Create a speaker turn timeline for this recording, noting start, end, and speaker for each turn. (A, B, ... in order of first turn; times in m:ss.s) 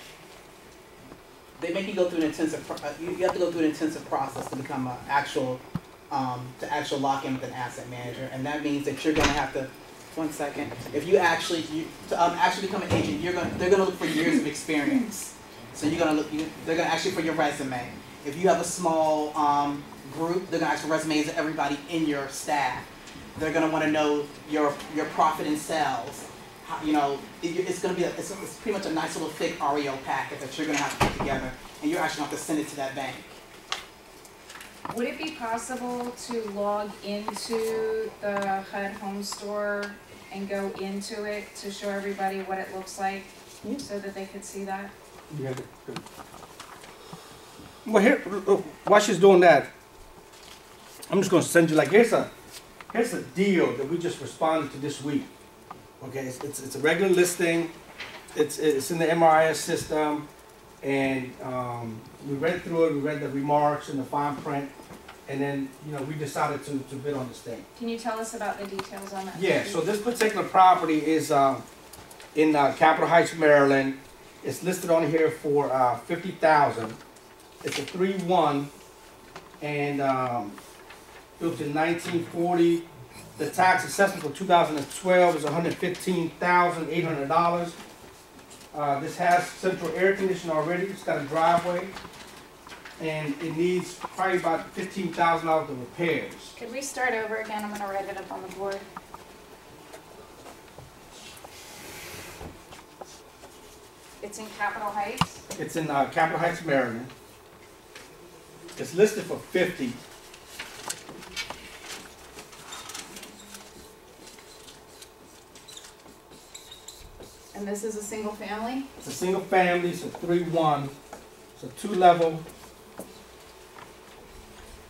0:01.6-0:33.4 A
0:34.9-0:44.9 B
0:45.3-0:46.0 C
0:47.8-0:49.7 C
0:51.1-0:52.3 C
0:52.9-0:55.3 C
0:56.0-0:57.7 C
0:58.3-1:00.3 C
1:00.8-1:04.7 C
1:05.2-1:07.6 C
1:07.8-1:09.8 B
1:09.3-1:11.6 C
1:12.3-1:17.0 C
1:17.6-1:18.7 C
1:19.6-1:20.6 C
1:21.4-1:22.8 C
1:23.4-1:27.8 C
1:28.7-1:31.9 C
1:33.0-1:36.5 C
1:36.6-1:38.8 B
1:44.2-1:45.4 B
1:45.6-1:47.1 C
1:48.8-1:50.0 C
1:57.5-1:58.9 B
1:59.0-2:00.9 C
2:01.6-2:02.4 C